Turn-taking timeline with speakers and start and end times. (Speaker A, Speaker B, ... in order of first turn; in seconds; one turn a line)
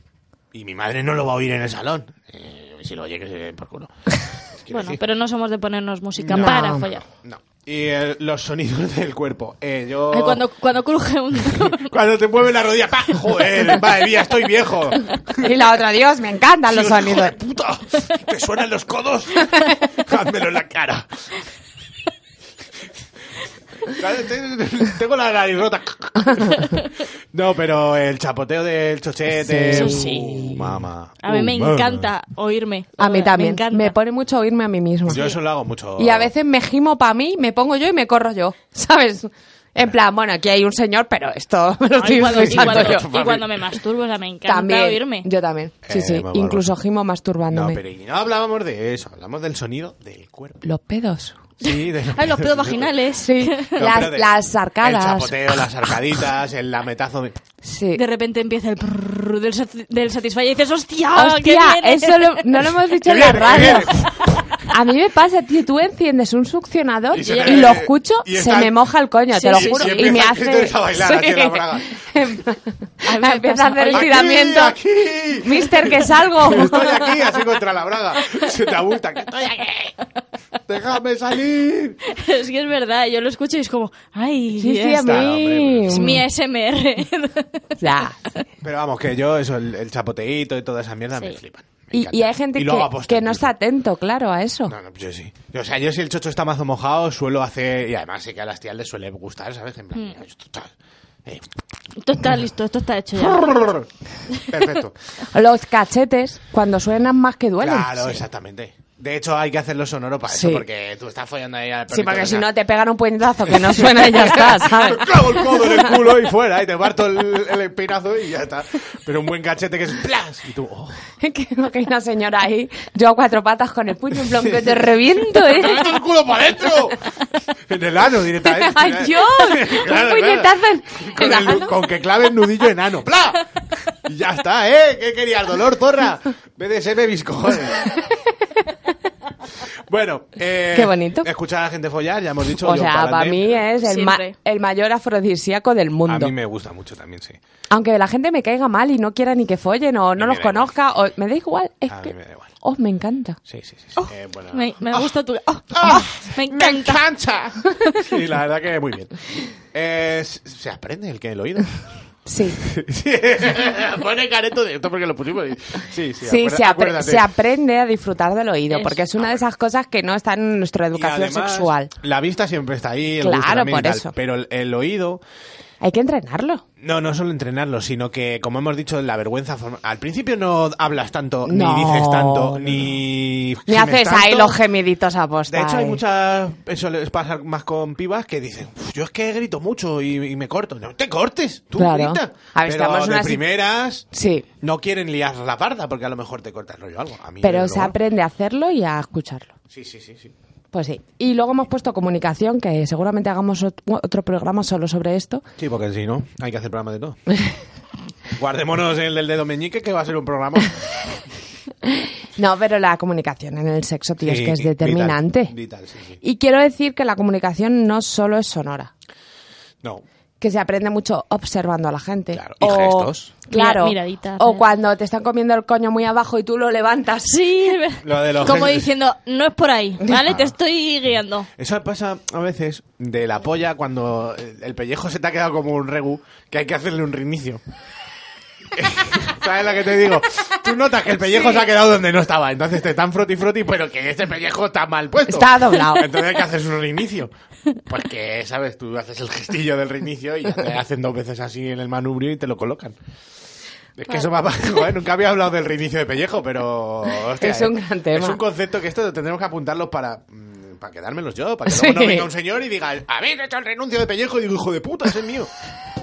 Speaker A: 0.5-3.9
Speaker A: 4.5-5.0
Speaker B: 4.7-7.0
Speaker A: 6.2-10.4
Speaker C: 6.3-6.9
Speaker B: 10.1-11.9
Speaker A: 11.5-15.7
Speaker C: 15.4-17.4
Speaker A: 16.6-21.2
Speaker A: 23.8-32.1
Speaker C: 29.4-30.5
Speaker B: 29.7-30.6
Speaker B: 31.2-33.9
Speaker C: 33.0-35.2
Speaker A: 35.1-36.3
Speaker C: 36.0-43.1
Speaker B: 42.0-45.3
Speaker A: 42.1-43.7
Speaker C: 44.5-47.8
Speaker A: 45.8-46.7
Speaker A: 47.5-50.6
Speaker C: 50.6-51.4
Speaker A: 51.6-52.9
Speaker B: 51.6-53.7
Speaker C: 53.2-55.4
Speaker A: 53.7-57.4
Speaker C: 57.6-58.0
Speaker B: 57.9-62.7
Speaker C: 61.1-63.9
Speaker A: 63.0-64.5
Speaker B: 63.4-64.0
Speaker C: 64.7-74.8
Speaker A: 67.1-68.8
Speaker B: 67.2-67.8
Speaker B: 69.3-70.1
Speaker A: 69.5-72.0
Speaker B: 73.0-74.3
Speaker A: 73.9-79.9
Speaker C: 75.4-76.9
Speaker A: 80.7-82.0
Speaker B: 82.1-85.3
Speaker C: 84.6-86.2
Speaker A: 84.9-86.2
Speaker B: 85.9-87.8
Speaker C: 87.8-88.2
Speaker A: 88.6-93.5
Speaker C: 91.9-94.7
Speaker A: 94.7-100.7
Speaker B: 102.0-103.5
Speaker A: 103.2-103.9
Speaker B: 104.3-104.6
Speaker A: 104.5-104.9
Speaker C: 105.3-108.2
Speaker A: 107.6-112.5
Speaker C: 110.3-110.6
Speaker C: 111.9-115.9
Speaker A: 113.5-121.0
Speaker C: 121.2-125.9
Speaker A: 124.2-127.0
Speaker A: 127.7-133.4
Speaker C: 128.4-131.7
Speaker A: 133.9-138.0
Speaker A: 139.6-143.6
Speaker C: 140.7-141.3
Speaker C: 142.6-146.3
Speaker B: 143.8-144.3
Speaker A: 146.1-147.4
Speaker C: 147.7-153.4
Speaker A: 150.2-150.7
Speaker A: 151.9-152.5
Speaker A: 153.5-155.1
Speaker B: 154.0-157.0
Speaker A: 155.7-161.9
Speaker C: 162.2-162.6
Speaker A: 162.6-167.3
Speaker C: 166.2-171.9
Speaker A: 170.9-175.2
Speaker C: 173.2-174.1
Speaker C: 175.8-176.6
Speaker A: 176.8-184.6
Speaker C: 181.4-183.0
Speaker C: 183.7-186.0
Speaker A: 185.5-194.1
Speaker C: 191.8-193.4
Speaker C: 194.1-194.4
Speaker A: 194.6-197.9
Speaker C: 197.4-199.5
Speaker A: 199.7-200.3
Speaker C: 200.7-205.4
Speaker A: 205.6-207.2
Speaker A: 208.3-211.1
Speaker C: 211.8-215.5
Speaker A: 214.2-216.2
Speaker C: 216.2-218.9
Speaker C: 220.4-227.3
Speaker A: 222.3-223.3
Speaker B: 223.5-224.7
Speaker B: 227.2-231.5
Speaker A: 228.0-228.9
Speaker A: 230.2-230.5
Speaker A: 231.6-237.6
Speaker A: 238.7-247.3
Speaker C: 245.3-246.2
Speaker A: 247.9-253.0
Speaker A: 254.0-265.5
Speaker C: 257.3-258.4
Speaker C: 261.7-262.3